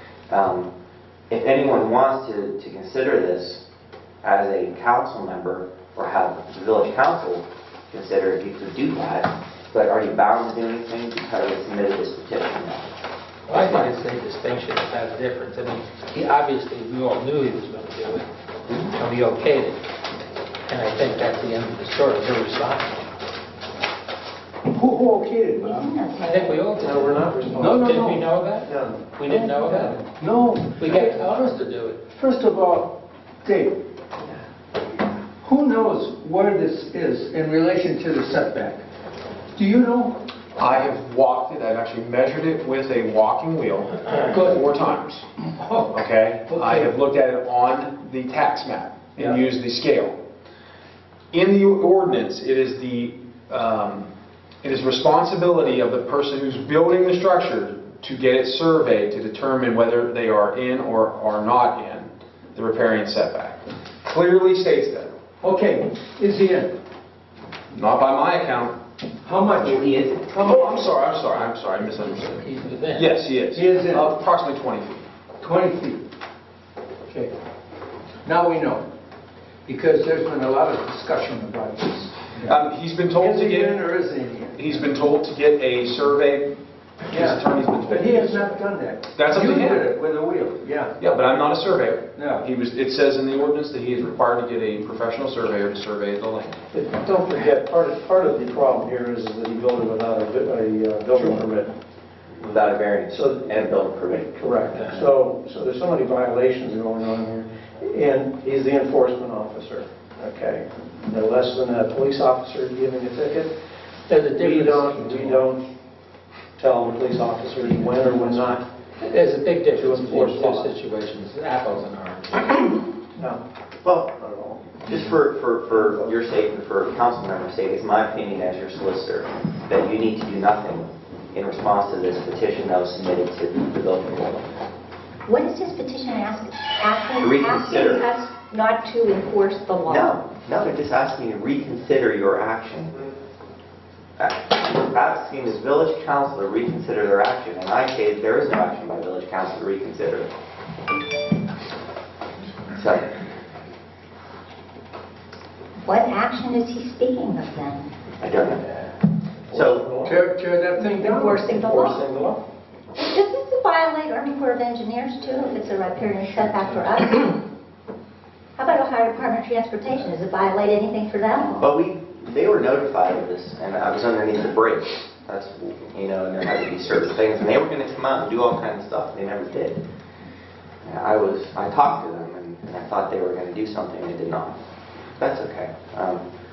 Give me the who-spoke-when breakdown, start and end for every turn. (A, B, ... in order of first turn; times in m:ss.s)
0:00.3-0:00.7 A
0:01.3-0:03.6 A
0:04.2-0:12.8 A
0:13.5-0:18.3 B
0:13.5-0:13.9 A
0:18.9-0:19.8 B
0:20.6-0:22.9 B
0:24.7-0:25.9 C
0:25.6-0:26.6 D
0:26.2-0:30.1 B
0:26.8-0:27.9 E
0:27.6-0:28.3 C
0:28.7-0:29.1 E
0:29.2-0:31.6 C
0:30.7-0:32.0 B
0:32.1-0:33.8 C
0:35.4-0:38.8 C
0:39.5-0:40.2 C
0:40.6-0:45.2 F
0:45.9-0:50.2 F
0:46.5-0:46.9 C
0:51.3-0:54.1 F
0:54.6-1:05.1 F
1:05.4-1:06.7 C
1:07.7-1:08.8 F
1:09.2-1:10.7 C
1:09.6-1:10.2 A
1:10.4-1:15.0 F
1:12.4-1:13.1 B
1:13.5-1:14.2 C
1:15.4-1:16.0 C
1:17.1-1:17.3 C
1:18.2-1:18.8 C
1:19.6-1:22.6 C
1:22.4-1:23.9 F
1:23.1-1:24.9 C
1:24.5-1:26.6 F
1:27.1-1:28.6 F
1:27.1-1:30.9 C
1:29.1-1:29.9 F
1:31.0-1:36.6 F
1:32.1-1:32.5 C
1:36.7-1:41.7 E
1:42.4-1:44.4 A
1:43.1-1:43.4 E
1:44.3-1:53.5 E
1:54.1-1:55.5 B
1:54.2-1:55.6 E
1:56.6-1:58.6 E
1:59.0-2:02.8 B
1:59.7-2:00.7 E
2:03.1-2:05.0 E
2:04.8-2:14.4 A
2:05.7-2:06.2 E
2:15.3-2:20.2 D
2:17.2-2:18.1 A
2:19.9-2:23.0 A
2:24.2-2:30.3 A
2:32.7-2:33.1 A
2:35.8-2:37.9 D
2:38.2-2:38.8 A
2:39.5-2:39.9 A
2:39.5-2:40.2 E
2:40.0-2:41.4 C
2:40.8-2:42.0 D
2:41.4-2:42.4 E
2:42.9-2:47.4 D
2:48.6-2:51.6 D
2:51.6-2:59.8 A
3:00.8-3:04.6 A
3:05.2-3:06.2 A